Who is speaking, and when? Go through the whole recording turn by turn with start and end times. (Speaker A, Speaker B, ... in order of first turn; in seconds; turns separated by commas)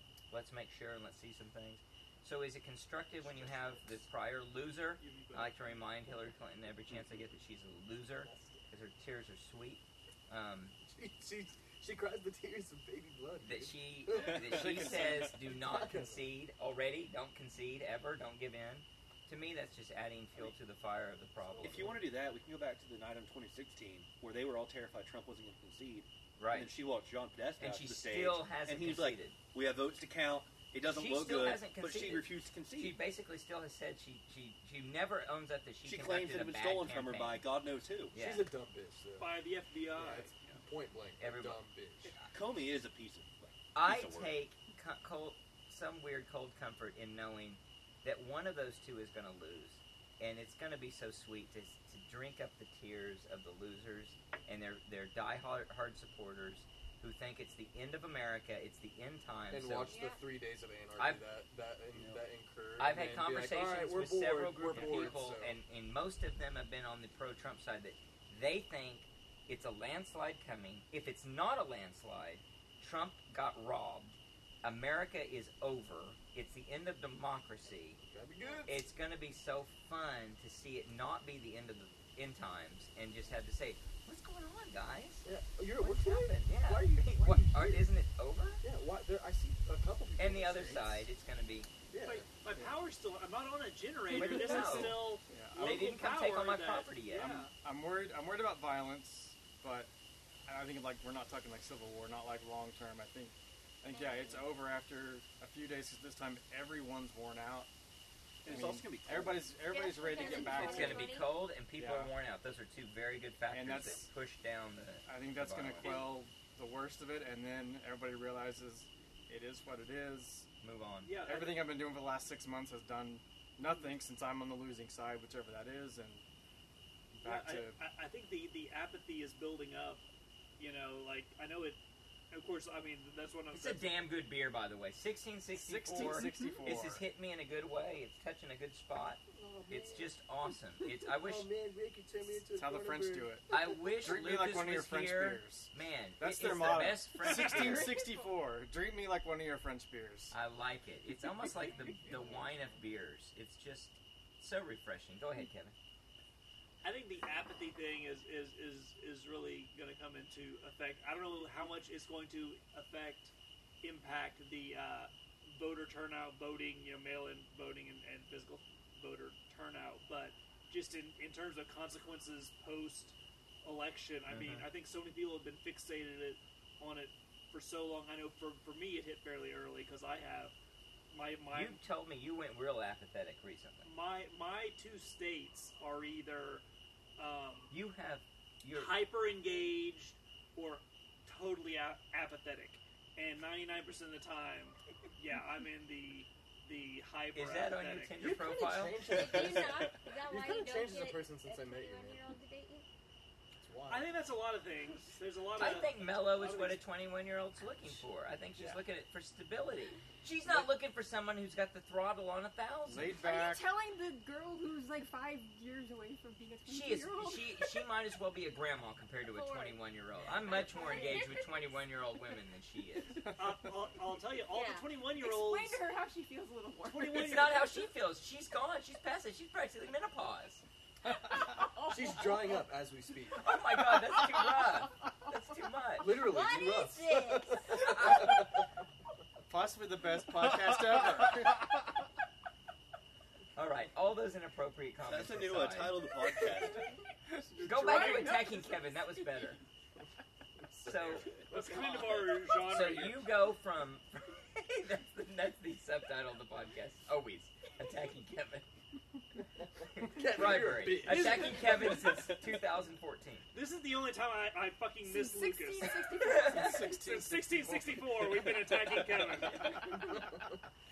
Speaker A: 0.3-10.8, Speaker B: 3.2-4.0, Speaker C: 5.0-5.7, Speaker B: 8.2-8.7, Speaker B: 10.8-16.4, Speaker A: 13.4-22.0, Speaker D: 14.1-15.2, Speaker E: 14.8-15.1, Speaker B: 21.6-22.1, Speaker D: 21.6-33.0, Speaker A: 26.4-26.7, Speaker A: 27.6-29.4, Speaker A: 30.8-37.5, Speaker D: 35.8-38.1, Speaker A: 38.1-38.5, Speaker B: 38.1-39.4, Speaker C: 39.2-40.6, Speaker B: 39.9-42.1, Speaker A: 41.2-41.6, Speaker D: 42.3-44.4, Speaker A: 43.7-59.9, Speaker B: 59.5-65.6, Speaker F: 59.8-60.2, Speaker A: 61.0-61.2, Speaker D: 61.9-62.2, Speaker A: 62.8-78.0, Speaker B: 78.0-78.9, Speaker A: 78.6-88.6, Speaker B: 85.2-87.9, Speaker B: 88.6-91.1, Speaker A: 90.2-91.7, Speaker B: 91.9-92.3, Speaker C: 92.0-97.5, Speaker A: 94.1-97.5, Speaker B: 94.2-94.9, Speaker E: 95.3-95.8, Speaker E: 97.6-99.9, Speaker E: 100.5-107.7, Speaker F: 103.8-104.5, Speaker D: 108.4-109.5, Speaker E: 108.5-111.1, Speaker F: 109.6-111.3, Speaker A: 110.4-116.0, Speaker E: 111.8-112.1, Speaker E: 113.5-114.1, Speaker E: 115.0-120.5, Speaker A: 120.6-121.1, Speaker C: 121.0-121.7, Speaker E: 121.2-126.2, Speaker E: 127.1-127.8, Speaker C: 127.2-130.0, Speaker C: 130.6-131.8, Speaker C: 132.3-133.9, Speaker A: 133.5-141.5, Speaker E: 135.5-137.0, Speaker B: 139.3-140.1, Speaker B: 140.9-143.9, Speaker E: 142.5-150.3, Speaker A: 143.5-147.9, Speaker A: 150.3-155.7, Speaker C: 156.8-163.3, Speaker C: 163.8-180.5, Speaker A: 174.3-174.7, Speaker C: 181.1-181.8, Speaker A: 181.5-183.9, Speaker C: 183.8-186.6, Speaker C: 187.2-187.7, Speaker A: 187.7-188.9, Speaker C: 188.7-198.2, Speaker A: 197.3-199.0, Speaker B: 198.2-202.3, Speaker F: 199.1-202.8, Speaker D: 199.1-199.9, Speaker B: 203.6-204.1, Speaker C: 203.9-206.8, Speaker A: 205.6-213.2, Speaker E: 212.9-213.6, Speaker G: 213.1-217.8, Speaker A: 216.7-223.2, Speaker F: 219.2-219.8, Speaker F: 220.4-221.7, Speaker G: 220.4-221.4, Speaker C: 223.4-225.8, Speaker F: 224.5-224.9, Speaker G: 225.1-227.7, Speaker C: 226.8-227.7, Speaker A: 227.0-230.6, Speaker G: 231.1-232.7, Speaker B: 231.9-233.5, Speaker A: 233.3-236.2, Speaker G: 234.1-234.8, Speaker B: 236.0-238.6, Speaker F: 236.2-238.1, Speaker A: 237.8-238.4, Speaker E: 239.5-241.6, Speaker B: 240.9-241.4, Speaker A: 243.6-246.0, Speaker D: 245.0-246.9, Speaker B: 247.5-248.3, Speaker A: 247.6-249.6, Speaker G: 247.6-249.5, Speaker B: 250.7-251.8, Speaker A: 250.8-258.7, Speaker D: 251.2-251.5, Speaker C: 251.4-253.3, Speaker A: 259.9-263.5, Speaker B: 260.0-261.8, Speaker C: 261.0-262.3, Speaker C: 263.5-266.1, Speaker G: 265.0-267.0, Speaker A: 266.2-266.9, Speaker E: 266.6-268.0, Speaker C: 266.8-270.0